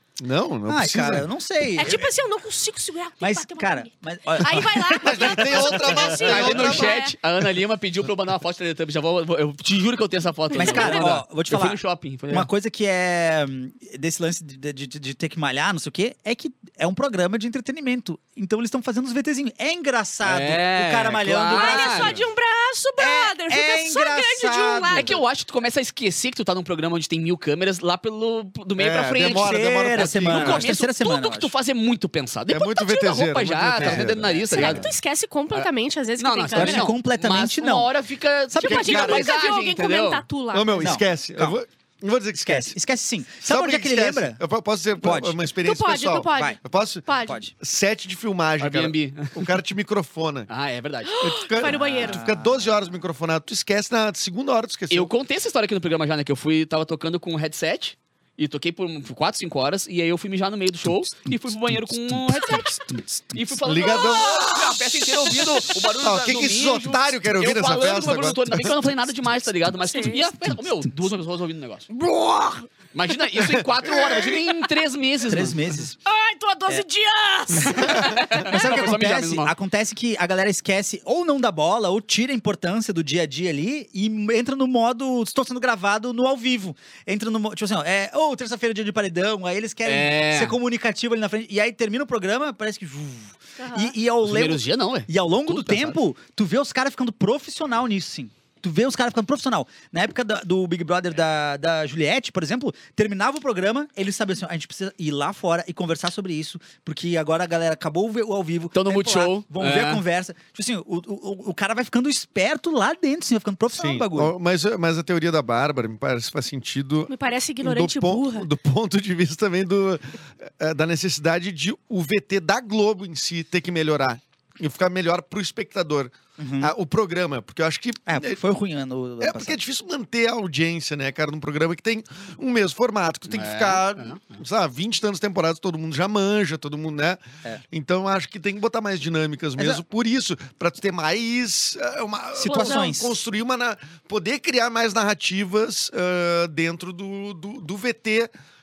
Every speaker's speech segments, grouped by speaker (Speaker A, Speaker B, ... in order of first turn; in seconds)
Speaker A: 0.2-1.3, 5.0-6.9, 28.8-30.6, 32.5-34.9, 38.7-39.2, 40.5-42.8, 43.4-50.5, 51.2-55.1, 63.6-68.8, 72.0-72.4, 73.4-74.4, 113.7-128.4, 129.2-148.3
Speaker B: 0.7-2.1, 3.2-6.3, 10.5-22.2, 23.0-25.2, 29.2-31.5, 33.8-34.3, 36.5-37.9, 38.5-38.9, 40.8-41.6, 42.4-44.4, 45.0-45.4, 46.3-46.6, 47.2-47.5, 51.6-52.8, 61.2-63.6, 70.0-70.9, 75.3-76.0, 77.6-114.3, 126.4-126.7, 128.1-129.6, 139.6-139.8, 142.4-143.2
Speaker C: 1.8-7.1, 10.5-11.1, 21.5-25.2, 34.5-36.9, 38.6-41.0, 45.6-47.4, 51.0-52.2, 69.8-70.2, 76.0-78.2, 93.6-93.9, 117.1-118.5, 142.4-142.9
Speaker D: 6.2-12.5, 20.2-22.2, 24.9-34.9, 35.5-40.2, 48.6-49.6, 50.5-51.7, 54.9-62.7, 63.3-71.9, 72.9-75.6, 77.7-79.5, 89.8-90.5, 94.2-96.0, 108.7-110.0, 133.3-134.4